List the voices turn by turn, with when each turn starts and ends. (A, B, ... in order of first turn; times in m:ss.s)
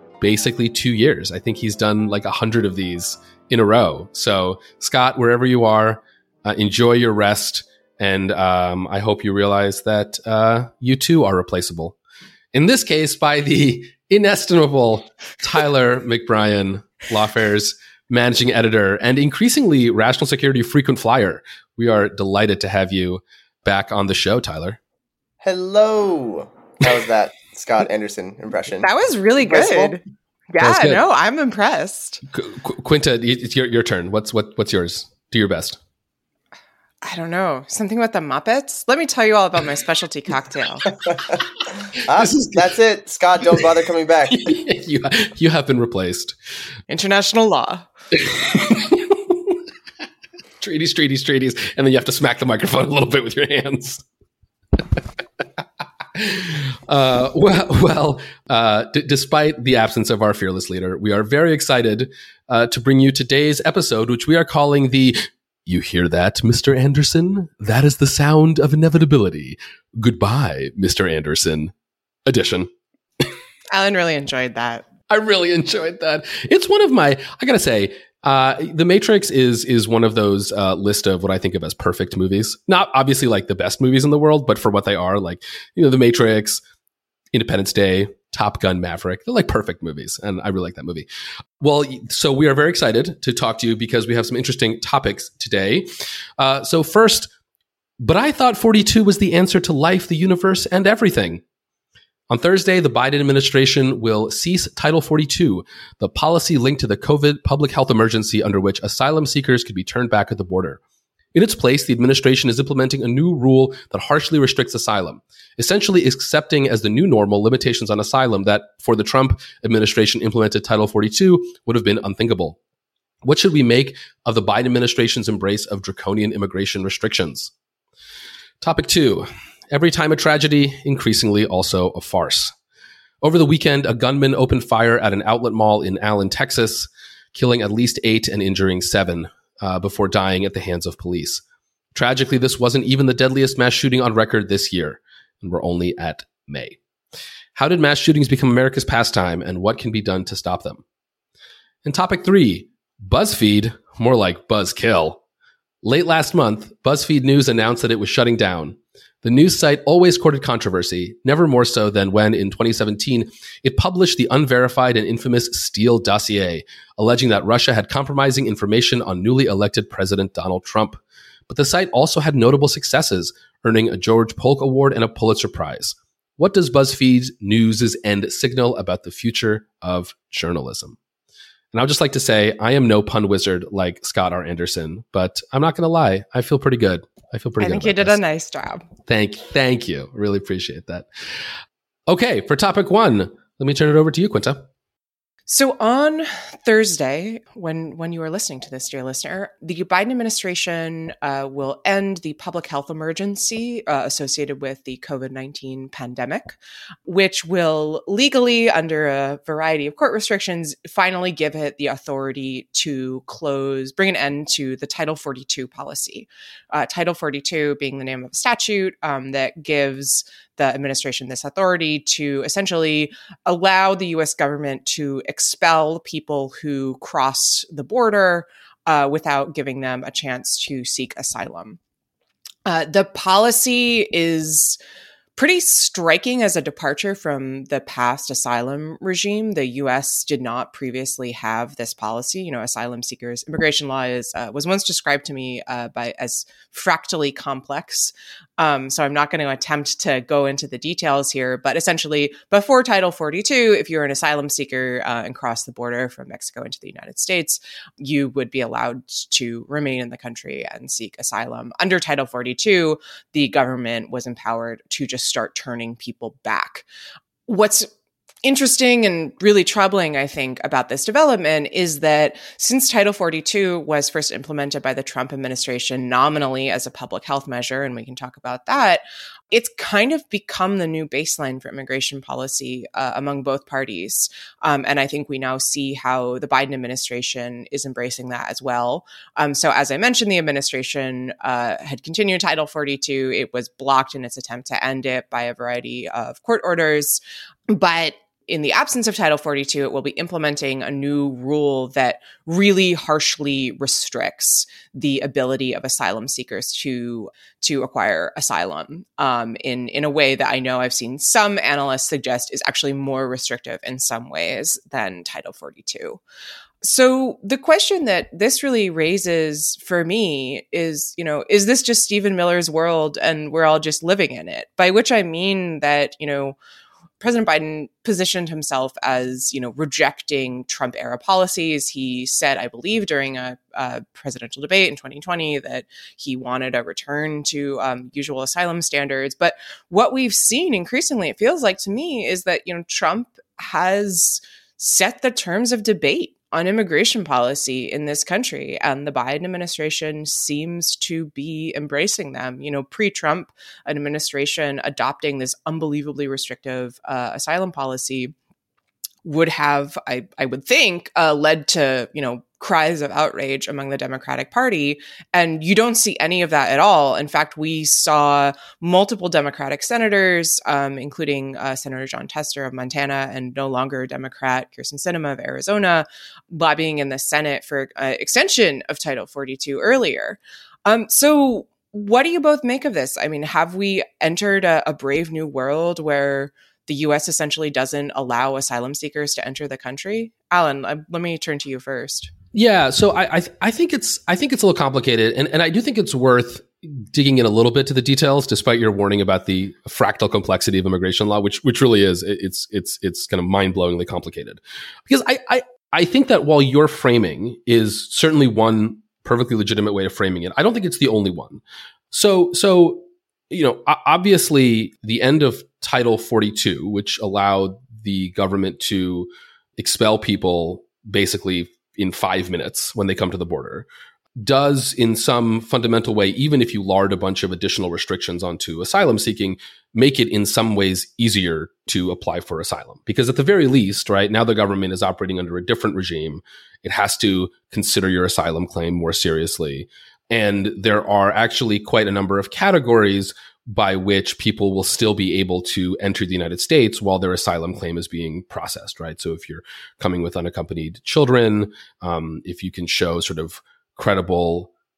0:00.2-0:12.0 A
0:12.5-0:24.8 A
0:25.4-0:28.9 B
0:28.8-0:30.0 C
0:29.4-0:30.0 B
0:30.5-0:32.2 C
0:30.6-0:31.0 A
0:32.3-0:35.8 A
0:37.0-0:40.9 C
0:41.0-0:41.4 B
0:42.0-0:44.5 B
0:42.2-0:42.7 A
0:44.3-0:46.3 A
0:46.9-0:47.8 C
0:48.2-0:49.6 A
0:50.6-0:54.0 A
0:56.1-1:11.7 A
1:12.3-1:12.7 A
1:13.7-1:14.8 C
1:15.1-1:26.6 A
1:27.3-1:31.0 A
1:31.6-1:35.9 A
1:36.4-1:37.3 A
1:38.0-1:41.4 A
1:42.3-1:50.8 A
1:51.3-2:02.6 A
2:03.2-2:07.5 A
2:08.6-2:12.5 A
2:13.2-2:21.4 A
2:21.9-2:26.8 A
2:27.5-2:30.8 A
2:31.8-2:35.2 A
2:35.8-3:01.0 A
3:01.7-3:08.2 A
3:07.6-3:08.8 C
3:09.0-3:11.0 A
3:12.1-3:14.6 A
3:15.5-3:51.8 C
3:52.6-3:54.8 C
3:55.4-4:26.8 C
4:27.5-4:27.9 C
4:28.4-5:16.2 C
5:16.8-5:26.6 C
5:27.2-5:58.3 C
5:59.2-6:32.3 C
6:32.5-7:34.7 A